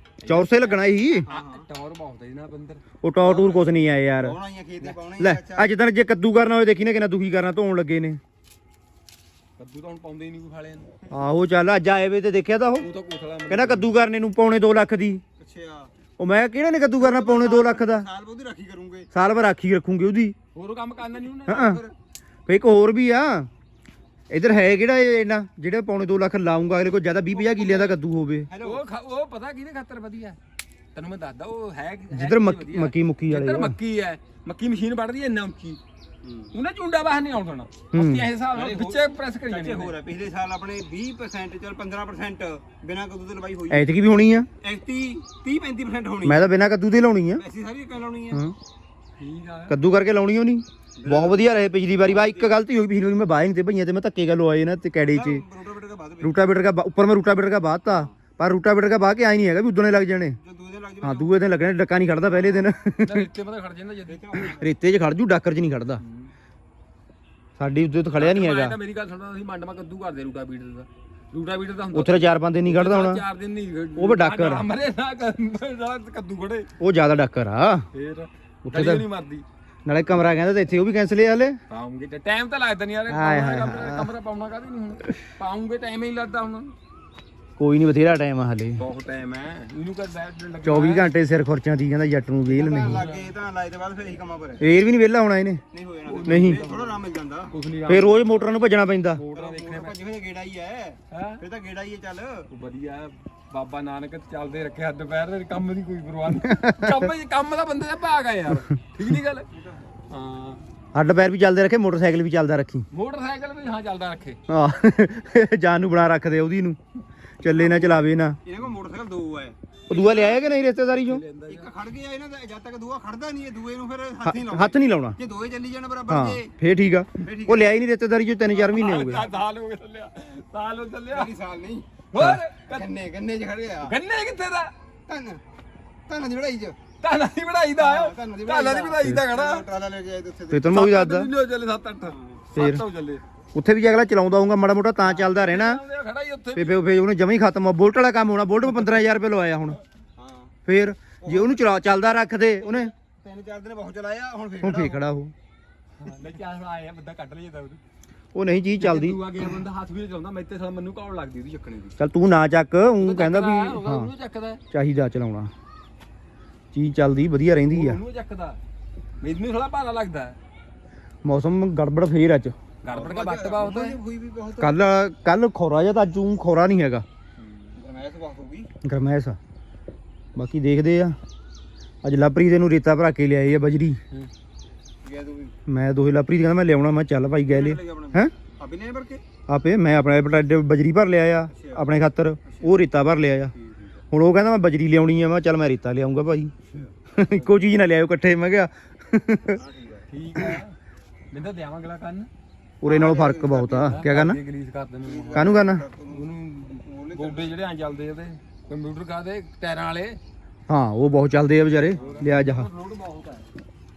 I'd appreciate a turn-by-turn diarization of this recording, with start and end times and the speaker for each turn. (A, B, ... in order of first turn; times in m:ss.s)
0:00.2-0:00.7 A
0:00.3-0:01.3 B
0:01.2-0:01.6 C
0:01.2-0:02.8 A
0:03.0-0:04.4 B
0:03.2-0:05.7 C
0:05.2-0:08.2 B
0:09.6-0:10.9 A
0:11.1-0:12.9 B
0:12.8-0:13.9 A
0:13.5-0:15.2 B
0:15.4-0:15.9 C
0:16.2-0:18.1 B
0:17.0-0:19.1 C
0:19.1-0:20.4 B
0:20.5-0:21.8 A
0:21.5-0:21.8 B
0:21.5-0:21.9 C
0:22.5-0:23.5 B
0:24.3-0:28.5 B
0:27.3-0:28.8 C
0:28.6-0:30.4 A
0:30.9-0:35.8 A
0:32.1-0:33.8 B
0:36.2-0:36.5 C
0:36.5-0:40.0 A
0:37.9-0:38.3 B
0:38.5-0:44.0 C
0:43.7-0:44.5 B
0:44.6-0:46.5 C
0:46.2-0:47.4 B
0:47.4-0:48.4 C
0:49.2-0:49.8 A
0:49.7-0:55.4 B
0:51.0-0:51.4 C
0:52.0-0:52.6 C
0:55.1-0:56.4 C
0:56.2-1:00.4 B
1:00.4-1:01.3 C
1:01.0-1:03.3 B
1:02.3-1:02.7 C
1:03.0-1:04.5 A
1:04.1-1:04.7 C
1:04.4-1:06.0 B
1:06.0-1:06.3 A
1:07.6-1:08.8 B
1:08.2-1:16.7 A
1:11.9-1:13.2 B
1:14.0-1:14.7 B
1:16.8-1:17.8 B
1:17.9-1:19.4 A
1:18.7-1:19.0 B
1:19.9-1:21.6 B
1:21.7-1:26.7 A
1:23.1-1:24.1 B
1:27.6-1:28.8 B
1:28.8-1:31.1 A
1:30.6-1:33.0 B
1:32.5-1:34.6 C
1:32.9-1:33.3 A
1:34.6-1:35.6 B
1:35.7-1:37.5 C
1:36.1-1:38.5 A
1:36.2-1:36.6 B
1:37.9-1:39.2 B
1:39.1-1:40.0 A
1:39.3-1:42.5 C
1:41.1-1:41.4 A
1:42.5-1:49.5 A
1:46.3-1:47.1 B
1:50.1-1:50.6 A
1:50.9-1:52.8 B
1:52.9-1:54.4 A
1:54.5-1:56.8 B
1:57.4-1:58.4 B
1:57.4-1:59.6 C
1:59.9-2:01.2 B
1:59.9-2:01.7 A
2:01.5-2:06.5 C
2:04.2-2:05.2 B
2:06.1-2:09.3 B
2:07.2-2:07.8 C
2:08.5-2:11.3 A
2:11.1-2:11.9 C
2:12.1-2:12.9 A
2:12.7-2:14.0 C
2:13.8-2:14.7 A
2:15.1-2:15.4 C
2:16.1-2:16.8 C
2:17.0-2:19.6 A
2:17.8-2:20.7 C
2:20.5-2:21.3 B
2:20.7-2:23.2 A
2:22.1-2:22.5 C
2:22.6-2:22.8 B
2:23.6-2:25.8 B
2:25.0-2:26.8 A
2:26.6-2:29.8 B
2:30.2-2:30.6 C
2:30.7-2:32.9 B
2:31.2-2:31.6 C
2:32.6-2:35.0 C
2:34.6-2:35.3 B
2:36.0-2:37.8 A
2:38.3-2:39.2 B
2:38.8-2:42.0 A
2:42.0-2:44.1 B
2:43.0-2:44.6 A
2:44.7-2:45.5 B
2:46.7-2:48.0 B
2:47.6-2:48.6 A
2:49.2-2:50.4 A
2:51.2-2:52.6 B
2:52.8-2:54.0 A
2:52.9-2:54.9 C
2:54.6-2:57.0 B
2:57.4-2:57.8 A
2:57.8-2:58.7 C
2:58.8-2:59.4 B
3:00.4-3:01.2 B
3:02.0-3:04.0 B
3:05.0-3:05.6 C
3:05.7-3:08.3 B
3:07.5-3:09.2 C
3:09.5-3:13.5 B
3:11.5-3:11.8 C
3:12.5-3:12.8 C
3:13.6-3:13.9 C
3:14.1-3:16.5 B
3:17.1-3:19.6 B
3:19.6-3:20.1 C
3:20.1-3:20.8 A
3:21.3-3:22.3 A
3:22.8-3:24.4 B
3:22.8-3:23.9 C
3:23.8-3:25.5 A
3:25.0-3:26.3 C
3:25.3-3:25.8 B
3:26.1-3:30.2 A
3:26.8-3:27.5 C
3:30.7-3:32.7 B
3:31.9-3:33.5 A
3:31.9-3:32.2 C